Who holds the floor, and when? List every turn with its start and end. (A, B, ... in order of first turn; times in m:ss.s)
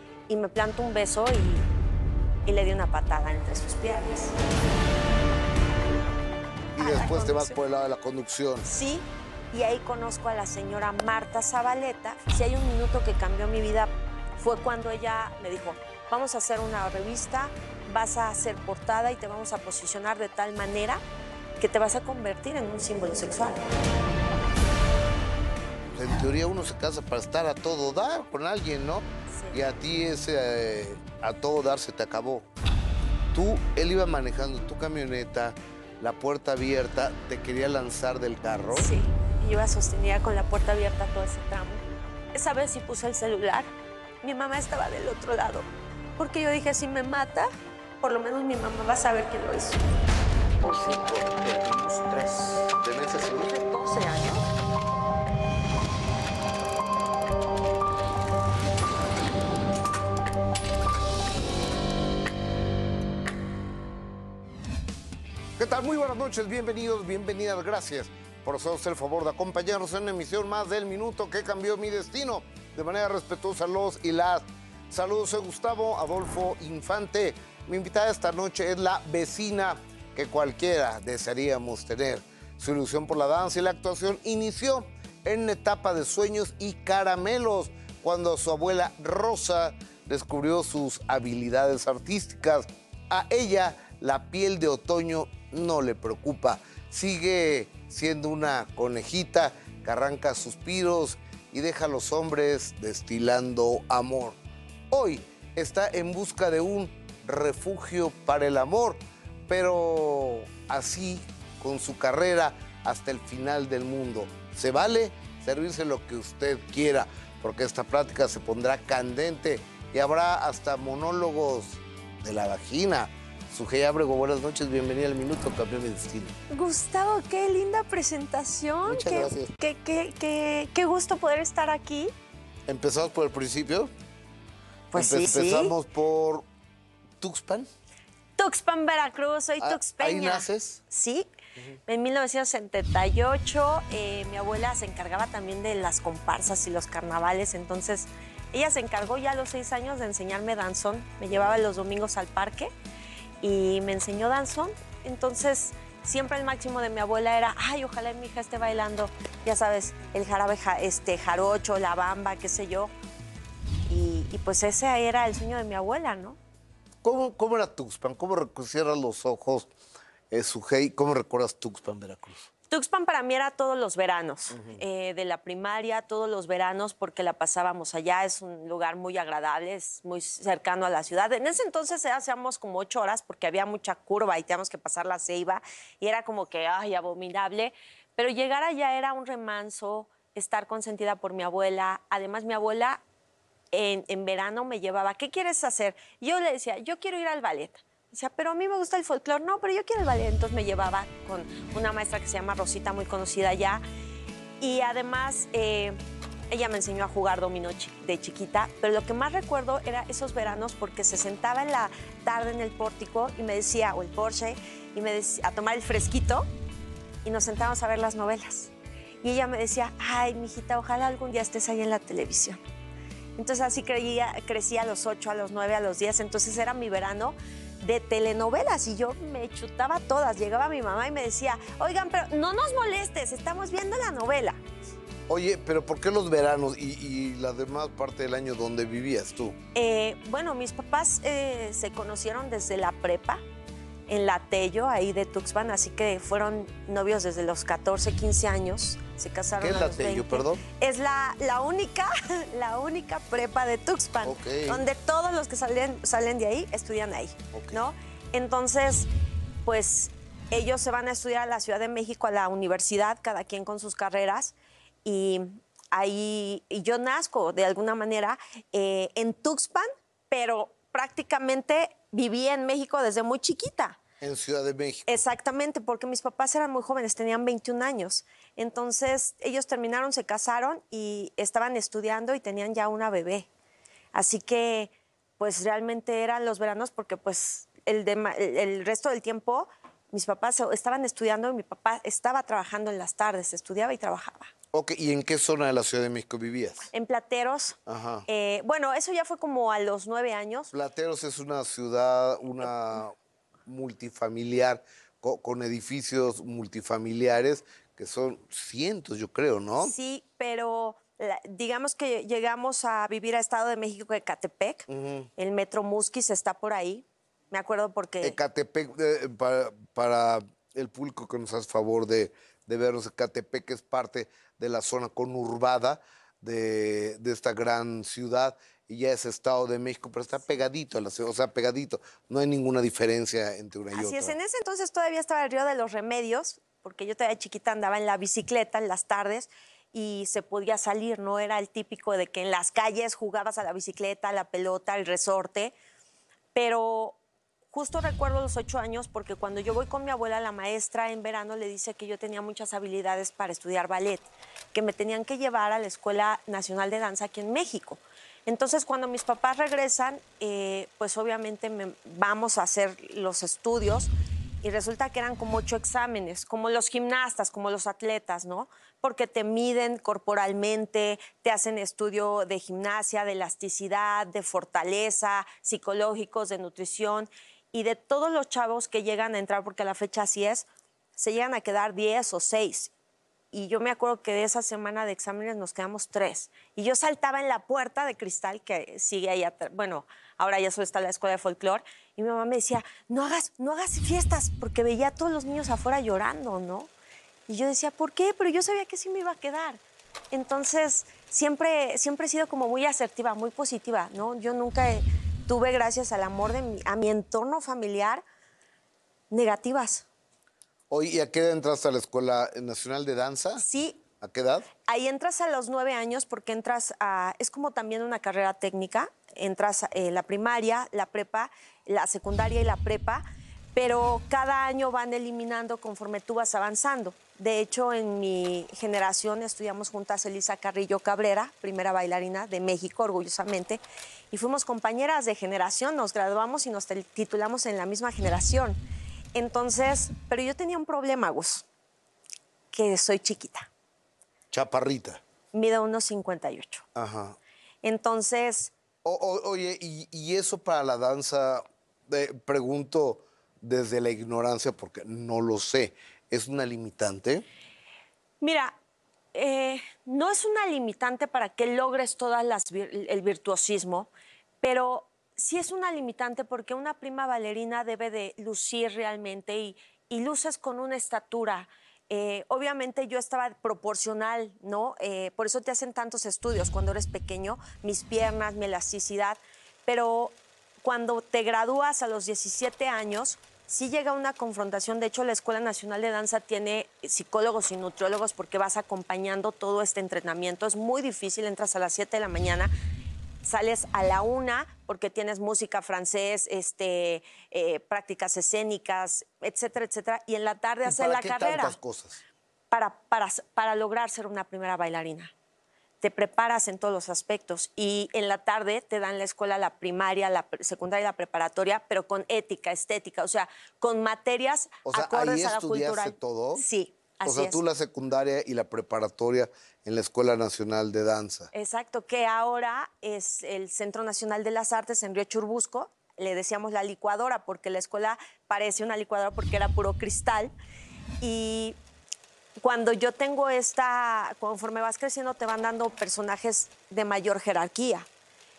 0:00.3-0:01.7 A
0:02.4-0:04.3 A
0:06.8-0:07.6 A
0:06.8-0:08.7 B
0:08.6-0:21.0 A
0:21.6-0:23.6 A
0:25.9-0:32.5 B
0:29.3-0:29.6 A
0:33.3-0:38.9 B
0:38.7-0:47.5 A
0:48.0-0:49.8 A
0:50.6-0:53.7 B
0:53.5-0:54.4 A
1:05.6-1:44.4 B
1:44.9-2:06.4 B
2:06.5-2:12.1 A
2:08.8-2:09.5 B
2:12.7-2:13.9 B
2:14.9-2:15.7 A
2:15.0-2:16.4 B
2:17.2-2:17.7 B
2:18.4-2:21.3 A
2:19.6-2:20.8 B
2:21.9-2:32.7 A
2:31.3-2:31.6 B
2:33.4-2:42.9 A
2:43.8-2:46.4 A
2:47.0-2:49.7 B
2:50.3-2:52.5 B
2:52.7-3:13.0 A
2:54.5-2:54.8 B
3:13.7-3:23.8 A
3:24.6-3:26.0 A
3:26.5-3:36.5 A
3:37.2-3:42.6 A
3:43.4-3:54.6 A
3:55.3-3:59.6 B
3:59.7-4:03.4 A
4:04.1-4:19.1 A
4:09.6-4:10.6 B
4:14.2-4:14.8 B
4:17.5-4:17.8 B
4:19.6-4:34.0 A
4:34.2-4:35.2 B
4:35.1-4:43.5 A
4:44.1-4:54.5 A
4:54.7-4:56.9 B
4:56.9-5:00.7 A
4:57.9-4:58.3 B
5:00.7-5:09.9 B
5:09.8-5:18.4 A
5:14.9-5:15.3 B
5:18.2-5:34.4 B
5:33.9-5:45.7 A
5:46.5-5:47.2 A
5:47.7-6:04.1 A
6:04.6-6:22.9 A
6:23.5-6:36.9 A
6:37.5-6:48.2 A
6:49.3-6:50.0 A
6:50.9-6:53.6 B
6:53.6-6:54.0 A
6:54.2-6:54.7 B
6:54.8-7:03.2 A
7:03.7-7:18.8 A
7:19.3-7:21.6 A
7:22.7-7:23.7 A
7:24.5-7:25.2 B
7:25.5-7:26.8 A
7:26.9-7:27.4 B
7:27.8-7:28.7 A
7:29.0-7:37.4 B
7:38.4-7:38.8 A
7:39.3-7:44.1 A
7:44.6-8:12.7 A
8:13.4-8:21.8 A
8:20.8-8:22.2 B
8:22.7-8:25.3 A
8:26.0-8:37.6 A
8:34.8-8:36.6 B
8:37.2-8:41.5 B
8:41.5-8:50.5 A
8:51.2-8:51.8 A
8:52.6-8:58.1 A